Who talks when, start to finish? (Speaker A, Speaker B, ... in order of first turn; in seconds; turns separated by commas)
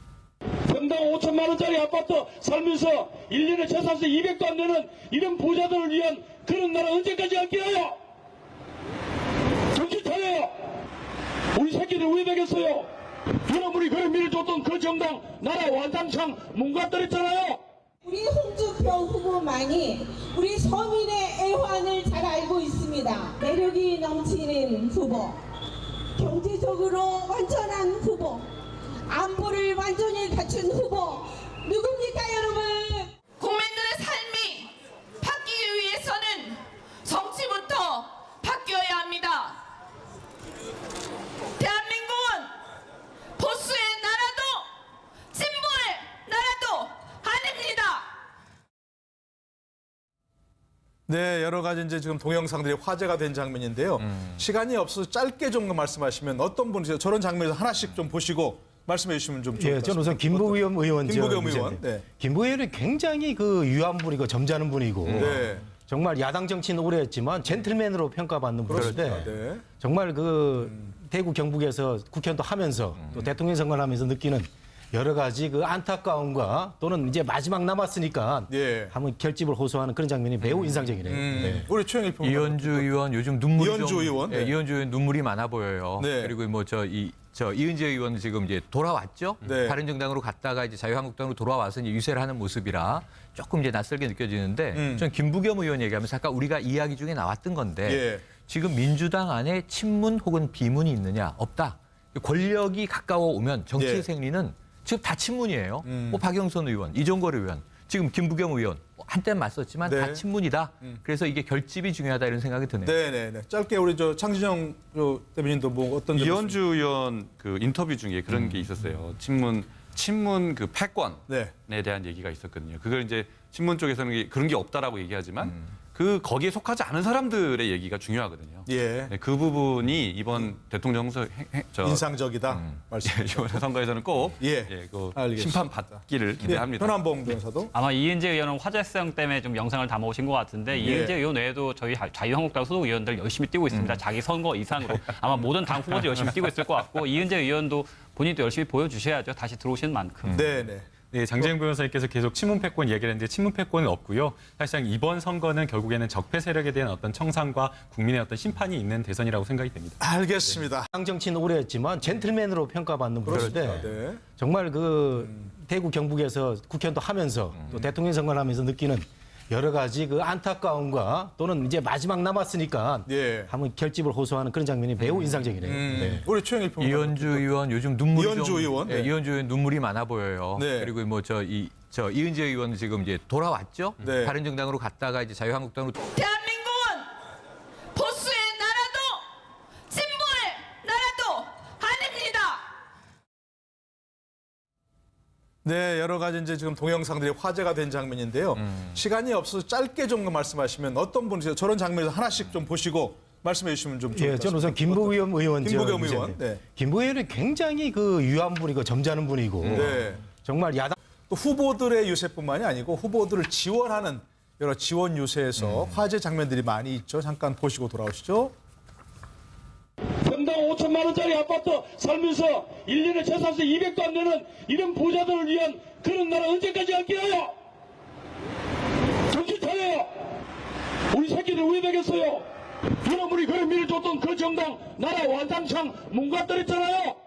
Speaker A: 0.7-7.9, Speaker A: 9.7-10.5, Speaker A: 11.6-12.9, Speaker A: 13.5-17.6, Speaker B: 18.0-25.4, Speaker B: 26.1-28.5, Speaker B: 29.1-33.1, Speaker C: 33.4-39.6, Speaker C: 41.6-42.5, Speaker C: 43.4-44.7, Speaker C: 45.3-48.1, Speaker D: 51.1-62.0, Speaker E: 59.6-81.7, Speaker D: 65.1-65.7, Speaker D: 68.7-69.6, Speaker D: 78.5-78.9, Speaker D: 81.0-83.0, Speaker F: 82.2-113.0, Speaker D: 83.5-84.5, Speaker D: 86.0-86.4, Speaker D: 89.4-89.8, Speaker D: 94.7-95.1, Speaker D: 97.8-98.3, Speaker D: 103.8-104.1, Speaker D: 105.8-106.2, Speaker D: 109.8-110.2, Speaker D: 112.8-116.6, Speaker G: 116.1-137.1, Speaker D: 121.3-121.5, Speaker D: 128.7-129.1, Speaker D: 131.8-133.6, Speaker D: 134.4-137.7, Speaker H: 137.7-150.7, Speaker D: 140.8-141.2, Speaker D: 150.3-150.9, Speaker I: 151.0-160.0, Speaker D: 160.0-160.9, Speaker E: 160.9-176.2, Speaker D: 163.2-164.2, Speaker D: 173.1-173.5, Speaker D: 175.6-177.6, Speaker F: 176.8-186.0, Speaker D: 178.1-179.1, Speaker D: 180.5-180.9, Speaker D: 184.0-184.3, Speaker C: 186.1-187.1, Speaker C: 187.9-189.2, Speaker C: 189.9-192.6, Speaker D: 195.6-206.6, Speaker E: 204.1-210.9, Speaker D: 209.7-210.2, Speaker D: 211.3-218.5, Speaker I: 215.6-215.9, Speaker A: 220.2-227.2, Speaker A: 229.3-230.0, Speaker A: 231.1-232.4, Speaker A: 233.0-237.1